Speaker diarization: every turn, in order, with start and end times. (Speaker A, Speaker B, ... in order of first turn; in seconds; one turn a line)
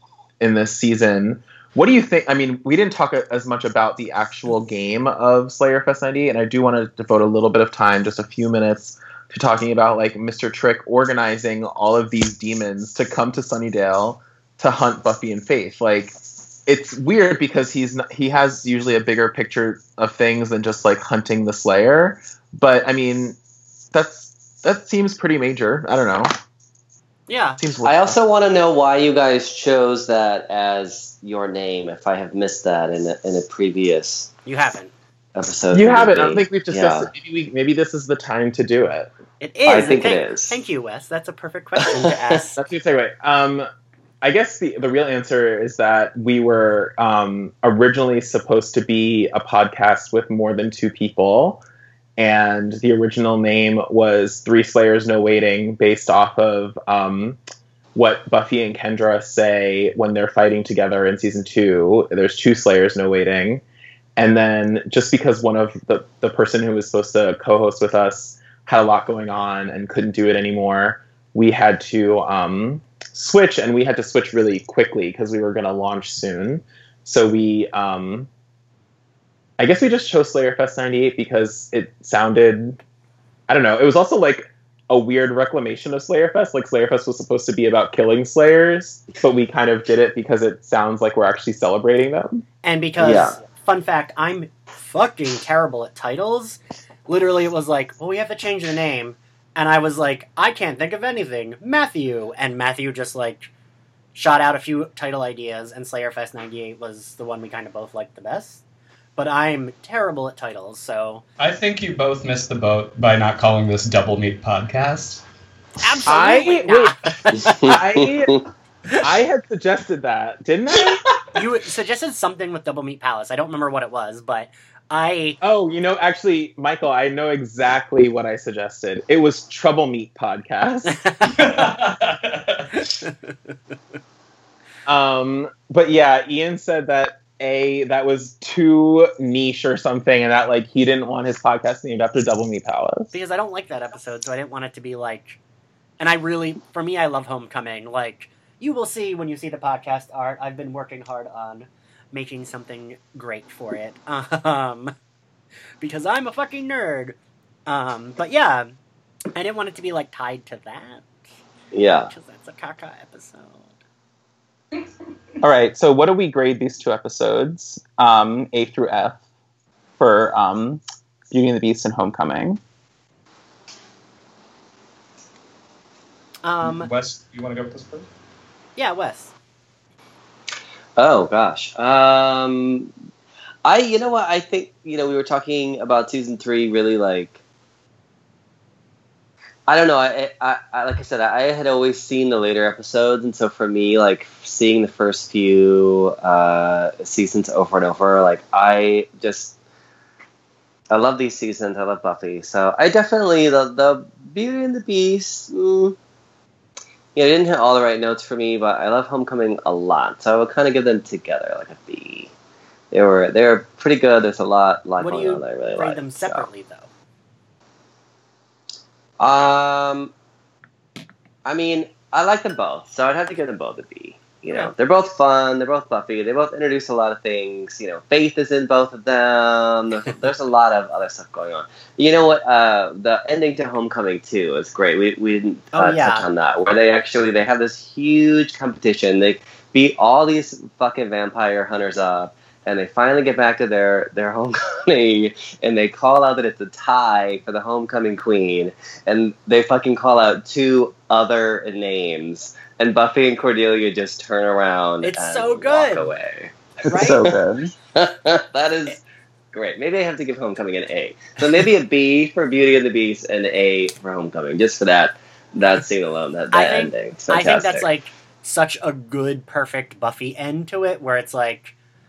Speaker A: 0.4-16.1
Speaker A: 16.6-23.4
Speaker A: 23.9-26.3
Speaker B: 27.3-27.6
Speaker A: 27.6-28.2
Speaker C: 27.8-34.3
Speaker B: 34.5-34.9
Speaker C: 35.3-37.1
Speaker A: 35.7-39.1
Speaker B: 39.4-42.7
Speaker C: 39.6-40.6
Speaker C: 41.8-42.4
Speaker A: 42.5-43.7
Speaker A: 44.2-51.6
Speaker A: 52.2-57.4
Speaker A: 57.9-63.6
Speaker A: 64.2-78.3
Speaker A: 79.6-82.8
Speaker A: 83.5-92.4
Speaker B: 92.6-103.5
Speaker C: 93.0-93.4
Speaker B: 104.1-108.6
Speaker B: 109.2-111.2
Speaker D: 111.4-115.2
Speaker B: 115.8-117.8
Speaker A: 116.1-116.9
Speaker C: 117.3-118.4
Speaker A: 117.5-118.4
Speaker A: 119.0-121.0
Speaker B: 121.3-125.4
Speaker A: 125.4-131.0
Speaker B: 130.9-131.6
Speaker D: 131.2-132.8
Speaker B: 133.0-133.3
Speaker A: 134.9-143.1
Speaker B: 143.1-145.4
Speaker B: 146.0-154.9
Speaker B: 155.8-157.2
Speaker B: 157.7-158.7
Speaker B: 159.3-161.1
Speaker C: 161.7-162.1
Speaker B: 162.1-163.7
Speaker A: 165.4-169.2
Speaker A: 170.0-172.6
Speaker B: 176.4-176.9
Speaker D: 176.6-178.1
Speaker B: 178.8-179.3
Speaker C: 181.0-182.9
Speaker C: 183.6-187.4
Speaker C: 189.7-199.6
Speaker C: 200.9-206.0
Speaker C: 207.1-212.3
Speaker C: 212.9-216.5
Speaker B: 215.0-216.9
Speaker C: 219.2-220.1
Speaker C: 221.4-257.3
Speaker B: 235.7-236.2
Speaker B: 255.0-256.1
Speaker B: 256.8-257.2
Speaker A: 256.9-257.7
Speaker C: 257.9-259.0
Speaker C: 259.5-267.9
Speaker B: 266.5-271.7